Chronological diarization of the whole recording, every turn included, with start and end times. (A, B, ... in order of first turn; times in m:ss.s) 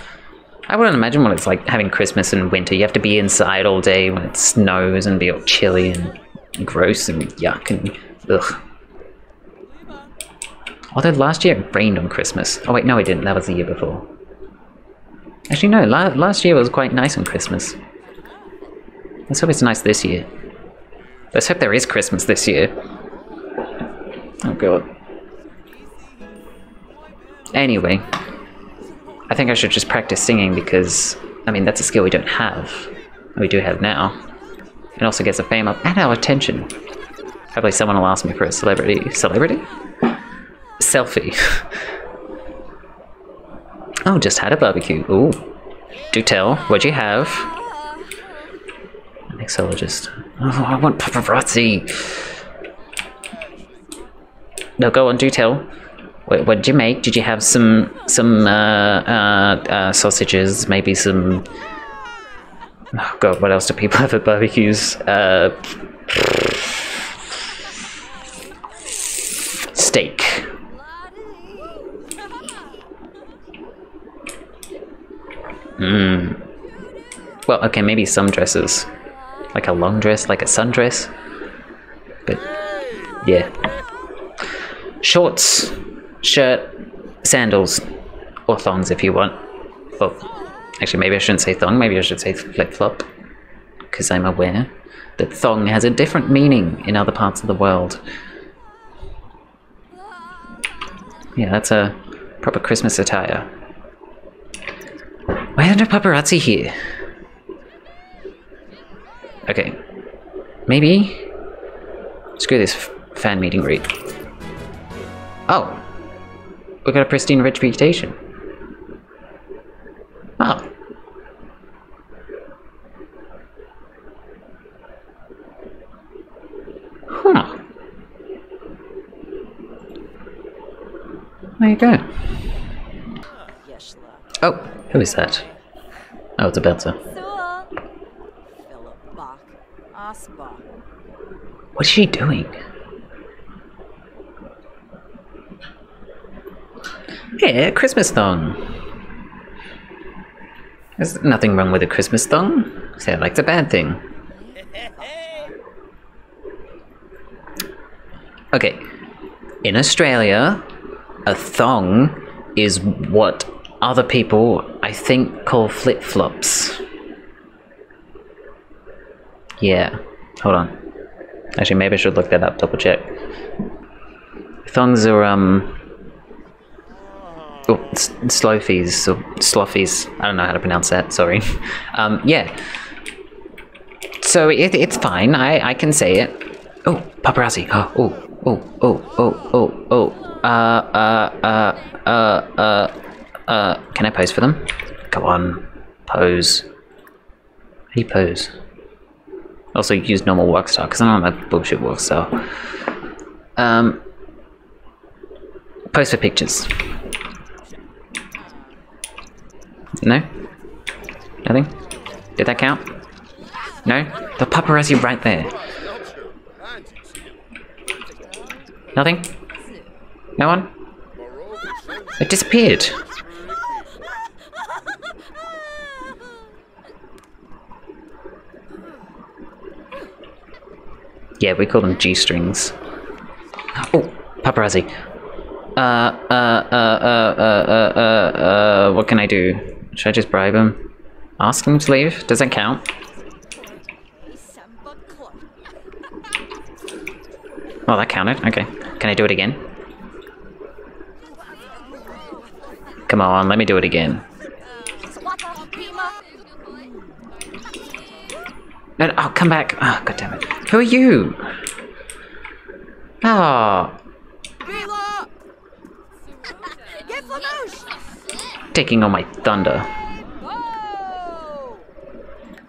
0:00.7-0:08.6 A
0:10.9-0:14.1 A
0:15.5-0:17.8 A
0:19.3-0:20.3 A
0:21.3-0:22.8 A
0:24.4-0:24.9 A
0:27.5-0:28.1 A
0:29.3-0:34.2 A
0:35.0-0:36.7 A
0:37.5-0:39.7 A
0:40.8-0:41.8 A
0:44.0-0:45.5 A
0:46.1-0:47.5 A
0:47.5-0:48.3 B
0:49.3-0:52.4 A
0:54.8-0:55.7 A
0:56.3-1:01.5 A
1:02.9-1:06.4 A
1:09.7-1:10.5 A
1:10.7-1:12.6 B
1:15.8-1:16.4 A
1:17.5-1:18.9 A
1:19.5-1:21.1 A
1:23.2-1:23.6 A
1:25.0-1:27.9 A
1:28.5-1:29.4 A
1:30.0-1:30.2 A
1:30.8-1:33.1 A
1:33.9-1:38.0 A
1:41.4-1:43.5 A
1:45.4-1:46.8 A
1:49.4-1:49.8 A
1:50.7-1:51.3 A
1:52.4-1:53.9 A
1:55.5-1:55.9 A
1:56.8-1:58.2 A
2:00.4-2:00.7 A
2:07.1-2:07.6 A
2:11.6-2:12.1 A
2:13.5-2:14.4 B
2:14.4-2:15.4 A
2:14.9-2:15.6 B
2:16.4-2:17.0 A
2:17.0-2:17.7 B
2:18.6-2:20.6 B
2:21.8-2:22.6 A
2:27.4-2:28.7 A
2:31.0-2:34.0 A
2:34.2-2:35.6 B
2:38.5-2:38.9 A
2:39.6-2:40.7 A
2:41.2-2:46.8 A
2:49.6-2:50.8 A
2:51.6-2:53.2 A
2:54.6-2:55.8 A
2:57.7-3:02.6 A
3:04.2-3:16.7 A
3:17.9-3:18.5 A
3:19.7-3:22.5 A
3:23.6-3:24.0 A
3:25.9-3:26.8 A
3:28.4-3:28.9 B
3:30.0-3:30.3 A
3:31.4-3:31.7 A
3:32.4-3:32.9 A
3:33.8-3:35.6 A
3:38.2-3:38.7 B
3:39.0-3:39.3 A
3:39.5-3:40.0 B
3:40.4-3:40.7 A
3:42.2-3:43.0 A
3:51.4-3:52.8 A
3:53.8-3:55.0 A
3:55.8-4:00.8 A
4:01.4-4:02.8 A
4:03.5-4:05.4 B
4:07.9-4:09.6 A
4:11.4-4:12.5 B
4:13.1-4:14.2 A
4:14.7-4:17.3 B
4:18.0-4:18.3 B
4:19.0-4:21.5 A
4:23.2-4:24.0 A
4:24.7-4:25.3 B
4:26.4-4:28.0 B
4:28.7-4:29.9 A
4:30.4-4:31.7 B